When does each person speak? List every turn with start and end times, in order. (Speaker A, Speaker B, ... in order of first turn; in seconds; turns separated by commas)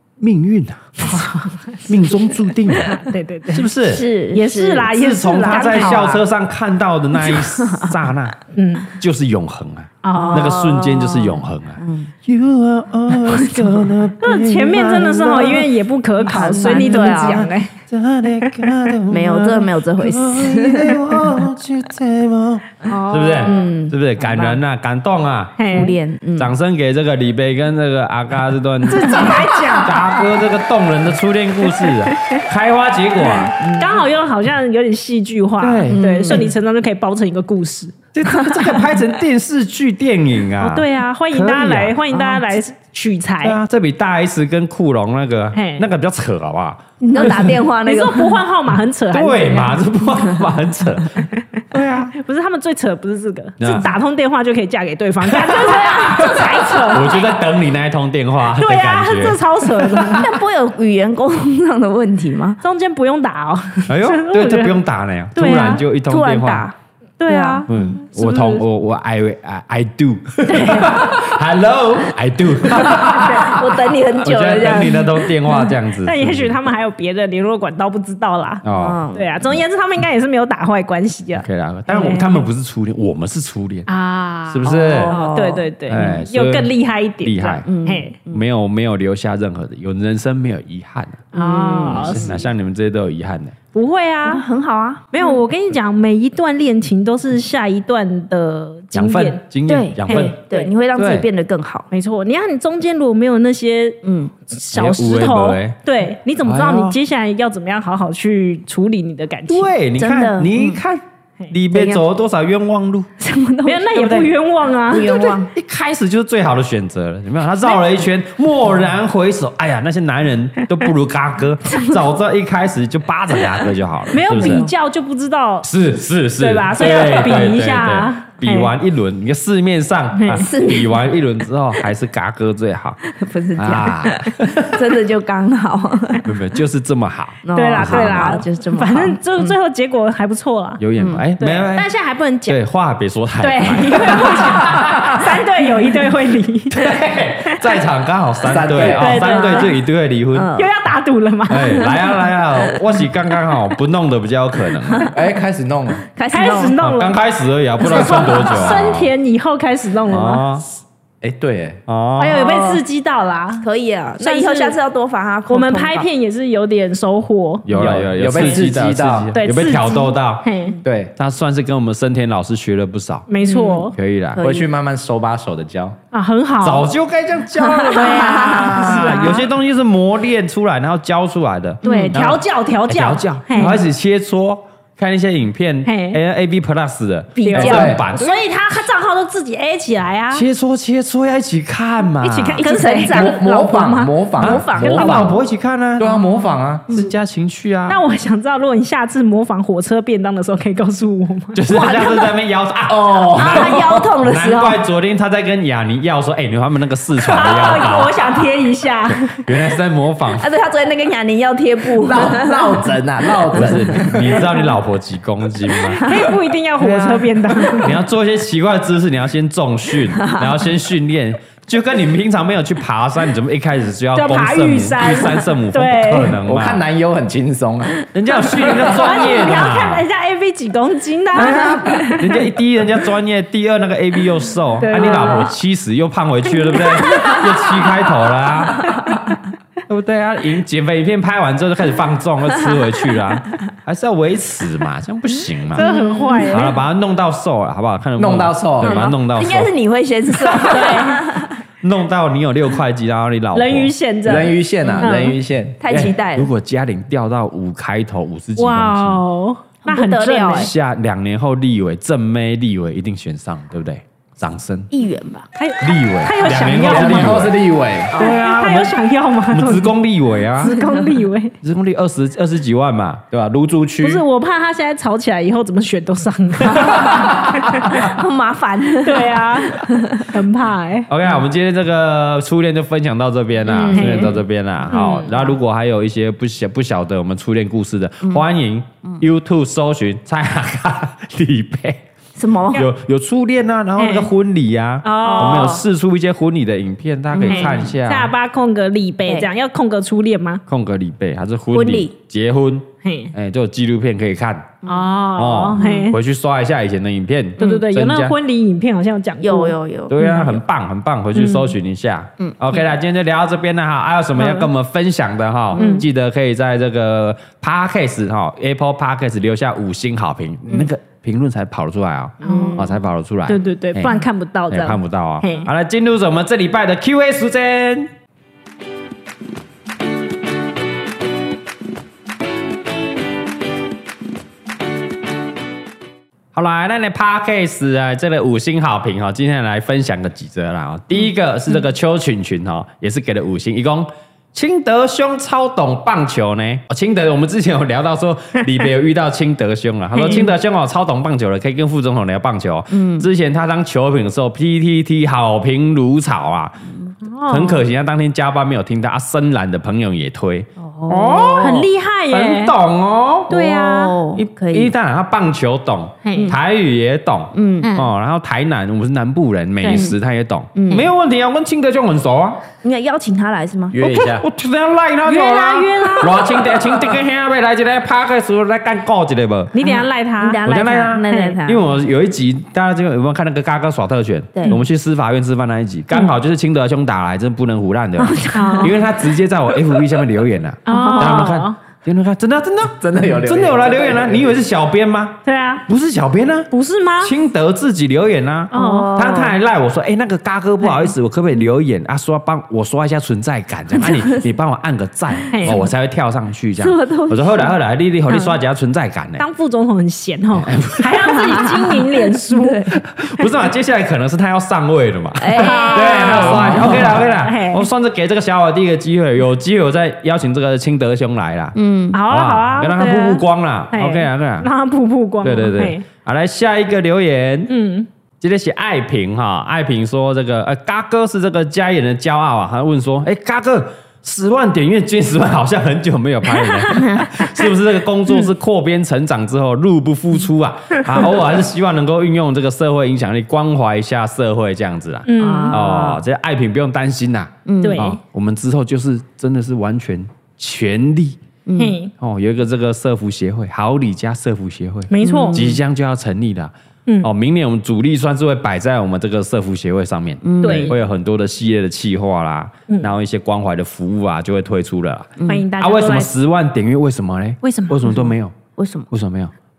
Speaker A: 0.2-1.3, Speaker B: 1.0-2.1, Speaker A: 1.9-3.0, Speaker B: 2.8-3.7, Speaker A: 3.5-4.0, Speaker C: 3.8-6.2, Speaker B: 4.3-6.2, Speaker A: 4.9-8.4, Speaker C: 7.2-8.0, Speaker B: 8.5-8.9, Speaker A: 8.9-15.7, Speaker B: 10.0-10.6, Speaker C: 10.1-12.1, Speaker C: 13.1-13.9, Speaker B: 14.2-17.7, Speaker C: 16.2-17.5, Speaker A: 16.3-25.6, Speaker B: 18.4-18.7, Speaker C: 19.1-21.4, Speaker B: 22.9-23.7, Speaker C: 23.4-24.6, Speaker B: 25.6-26.0, Speaker C: 25.7-26.5, Speaker A: 26.4-33.7, Speaker B: 28.9-30.2, Speaker C: 29.3-29.8, Speaker B: 31.7-32.4, Speaker C: 33.6-33.9, Speaker B: 33.6-38.0, Speaker A: 35.6-36.5, Speaker C: 35.9-36.5, Speaker A: 38.1-42.0, Speaker B: 40.6-43.6, Speaker C: 42.1-42.4, Speaker A: 43.4-47.5, Speaker B: 45.5-45.9, Speaker C: 47.0-48.4, Speaker B: 47.8-49.9, Speaker A: 49.1-52.1, Speaker B: 52.1-57.3, Speaker A: 53.6-53.9, Speaker A: 55.3-60.2, Speaker C: 55.6-57.2, Speaker B: 58.5-60.3, Speaker C: 60.1-62.6, Speaker B: 62.6-64.8, Speaker A: 63.9-66.7, Speaker B: 65.4-65.8, Speaker C: 66.0-68.0, Speaker B: 67.2-68.6, Speaker A: 67.7-76.6, Speaker B: 70.5-70.9, Speaker C: 70.7-71.1, Speaker C: 72.8-75.3, Speaker B: 73.2-73.5, Speaker B: 75.5-82.5, Speaker A: 78.6-79.0, Speaker C: 78.7-79.3, Speaker A: 81.4-83.9, Speaker B: 83.9-88.2, Speaker A: 84.5-85.2, Speaker C: 84.6-86.1, Speaker A: 85.9-86.7, Speaker A: 87.2-87.7, Speaker C: 87.6-88.4, Speaker A: 88.3-93.5, Speaker B: 91.3-92.4, Speaker C: 91.3-92.4, Speaker B: 93.7-94.5, Speaker C: 94.2-95.4, Speaker B: 95.1-99.4, Speaker A: 98.9-100.4, Speaker C: 99.7-101.9, Speaker B: 100.0-100.7, Speaker A: 101.0-101.3, Speaker B: 101.9-109.7, Speaker C: 104.0-104.3, Speaker A: 104.7-105.8, Speaker A: 106.4-107.0, Speaker A: 109.5-113.1, Speaker C: 110.0-110.8, Speaker C: 111.7-112.0, Speaker C: 113.2-114.3, Speaker B: 113.6-115.3, Speaker C: 114.9-115.5, Speaker A: 115.0-124.7, Speaker B: 124.1-125.7, Speaker C: 124.3-124.7, Speaker A: 125.6-133.0, Speaker B: 126.4-128.7, Speaker B: 130.2-130.4, Speaker C: 130.3-131.2, Speaker C: 133.1-136.3, Speaker A: 133.6-134.8, Speaker A: 136.2-138.4, Speaker C: 137.4-139.6, Speaker B: 137.5-140.8, Speaker A: 140.8-141.9, Speaker C: 141.0-141.2, Speaker B: 141.4-142.6, Speaker A: 142.5-144.9, Speaker B: 143.4-147.7, Speaker A: 146.7-150.5, Speaker D: 148.4-149.4, Speaker B: 148.8-149.8, Speaker C: 150.3-150.7, Speaker B: 150.5-152.0, Speaker A: 151.5-155.1, Speaker D: 155.1-156.0, Speaker C: 156.1-156.8, Speaker B: 156.3-157.2, Speaker A: 156.8-159.1, Speaker B: 157.8-160.5, Speaker A: 160.1-160.6, Speaker D: 161.2-161.8, Speaker A: 161.9-162.4, Speaker B: 162.2-163.7, Speaker C: 162.4-162.8, Speaker C: 163.6-166.1, Speaker B: 164.2-164.8, Speaker B: 165.5-167.7, Speaker A: 167.6-170.4, Speaker D: 167.7-169.3, Speaker B: 169.3-170.8, Speaker D: 170.8-171.1, Speaker A: 171.2-173.3, Speaker B: 173.3-173.9, Speaker C: 173.4-174.7, Speaker A: 173.9-174.4, Speaker D: 174.4-176.0, Speaker B: 176.1-176.9, Speaker A: 176.6-188.4, Speaker C: 177.6-179.4, Speaker B: 177.8-179.5, Speaker C: 181.8-182.2, Speaker B: 181.8-183.8, Speaker B: 185.9-186.2, Speaker C: 187.3-188.0, Speaker B: 187.4-190.4, Speaker D: 187.6-188.0, Speaker A: 190.3-192.6, Speaker B: 192.2-194.1, Speaker C: 192.6-195.2, Speaker D: 193.0-195.4, Speaker A: 194.4-196.2, Speaker B: 194.8-195.4, Speaker D: 196.0-196.9, Speaker A: 196.9-198.0, Speaker B: 197.9-201.6, Speaker A: 201.5-208.4, Speaker C: 201.7-202.3, Speaker D: 202.9-204.1, Speaker C: 203.3-204.8, Speaker B: 207.2-209.4, Speaker A: 209.1-210.5, Speaker C: 210.3-212.8, Speaker D: 212.0-214.4, Speaker A: 213.5-216.1, Speaker B: 216.0-217.9, Speaker A: 216.8-226.8, Speaker B: 224.1-226.4, Speaker D: 226.4-228.0, Speaker A: 228.1-230.0, Speaker B: 228.5-232.4, Speaker A: 231.3-239.0, Speaker C: 231.9-232.1, Speaker B: 234.8-235.5, Speaker C: 235.1-235.4, Speaker B: 236.7-237.5, Speaker C: 237.1-237.4, Speaker C: 238.9-239.1, Speaker A: 239.9-245.9, Speaker C: 245.8-246.7, Speaker B: 245.8-246.8, Speaker A: 246.5-249.7, Speaker D: 248.2-249.1, Speaker C: 248.8-251.6, Speaker B: 250.6-251.3, Speaker A: 251.8-253.9, Speaker B: 253.5-255.4, Speaker D: 254.2-255.8, Speaker C: 254.8-256.5, Speaker A: 255.9-259.2, Speaker B: 258.6-260.7, Speaker C: 259.8-260.7, Speaker A: 260.5-264.9, Speaker C: 264.9-265.5, Speaker B: 265.6-267.5, Speaker A: 265.8-267.6, Speaker D: 266.7-268.1, Speaker A: 268.1-269.0, Speaker B: 268.1-269.9, Speaker A: 269.5-270.8, Speaker B: 270.6-271.5, Speaker C: 270.7-271.2, Speaker A: 271.6-274.1, Speaker D: 273.3-274.2, Speaker B: 274.0-278.1, Speaker C: 276.8-277.2, Speaker D: 276.8-277.6, Speaker C: 277.9-280.4, Speaker B: 279.0-281.1, Speaker A: 281.1-292.0, Speaker C: 283.7-284.4, Speaker B: 283.7-284.4, Speaker B: 284.9-285.6, Speaker C: 292.4-292.9, Speaker A: 292.7-298.3, Speaker B: 294.0-294.3, Speaker B: 295.0-295.8, Speaker C: 295.2-295.8, Speaker C: 297.3-297.9, Speaker B: 297.5-300.6, Speaker A: 300.7-304.8, Speaker C: 301.7-302.1, Speaker B: 303.0-303.3, Speaker C: 304.8-305.1, Speaker B: 304.9-306.2, Speaker A: 305.3-308.3, Speaker C: 305.8-306.1, Speaker B: 307.6-310.4, Speaker C: 309.4-310.6, Speaker A: 310.1-324.2, Speaker B: 311.3-311.7, Speaker B: 314.4-314.7, Speaker C: 315.8-316.1, Speaker B: 315.8-316.1, Speaker C: 322.4-323.0, Speaker B: 322.4-322.8, Speaker B: 323.5-325.7, Speaker A: 324.7-328.1, Speaker A: 336.5-356.8, Speaker B: 350.2-350.5, Speaker C: 350.2-350.5, Speaker C: 352.9-353.3, Speaker B: 357.2-357.9, Speaker A: 357.5-363.5, Speaker C: 360.8-361.9, Speaker B: 361.6-362.7, Speaker B: 363.5-364.2, Speaker C: 363.5-364.9, Speaker A: 364.3-372.6, Speaker B: 366.2-366.5, Speaker C: 366.3-366.6, Speaker C: 367.5-367.9, Speaker B: 367.8-368.1, Speaker B: 369.8-370.1, Speaker C: 369.9-370.2, Speaker C: 370.8-371.1, Speaker C: 372.8-374.2, Speaker D: 373.9-374.4, Speaker A: 374.0-379.7, Speaker B: 375.3-376.6, Speaker B: 379.7-380.6, Speaker C: 379.8-381.9, Speaker A: 380.6-396.7, Speaker C: 384.5-384.8, Speaker C: 388.2-389.1, Speaker B: 388.5-388.9, Speaker B: 390.9-391.8, Speaker C: 390.9-391.5, Speaker D: 393.0-394.6, Speaker B: 395.4-395.8, Speaker B: 396.7-397.3, Speaker A: 397.2-409.4, Speaker B: 398.7-399.1, Speaker C: 398.7-399.6, Speaker B: 400.8-401.1, Speaker C: 404.0-404.4, Speaker B: 405.5-405.9, Speaker C: 406.8-407.7, Speaker B: 409.4-412.9, Speaker A: 410.5-411.7, Speaker C: 411.4-412.9, Speaker A: 412.9-421.8, Speaker C: 415.4-417.1, Speaker B: 415.6-417.9, Speaker C: 421.8-422.2, Speaker B: 422.1-426.1, Speaker A: 422.3-424.7, Speaker A: 425.4-427.7, Speaker B: 427.7-428.1, Speaker A: 428.4-451.4, Speaker B: 436.6-437.2, Speaker C: 437.0-437.3, Speaker B: 445.3-446.0, Speaker C: 445.4-446.2, Speaker C: 447.7-448.1, Speaker B: 447.8-448.2, Speaker C: 451.7-452.0, Speaker B: 451.8-452.1, Speaker A: 452.2-468.5, Speaker B: 455.1-455.7, Speaker C: 455.2-455.8, Speaker C: 460.4-460.9, Speaker B: 460.6-461.0, Speaker C: 465.4-465.7, Speaker B: 465.5-466.3, Speaker B: 467.6-468.3, Speaker C: 468.8-469.1, Speaker A: 469.1-469.5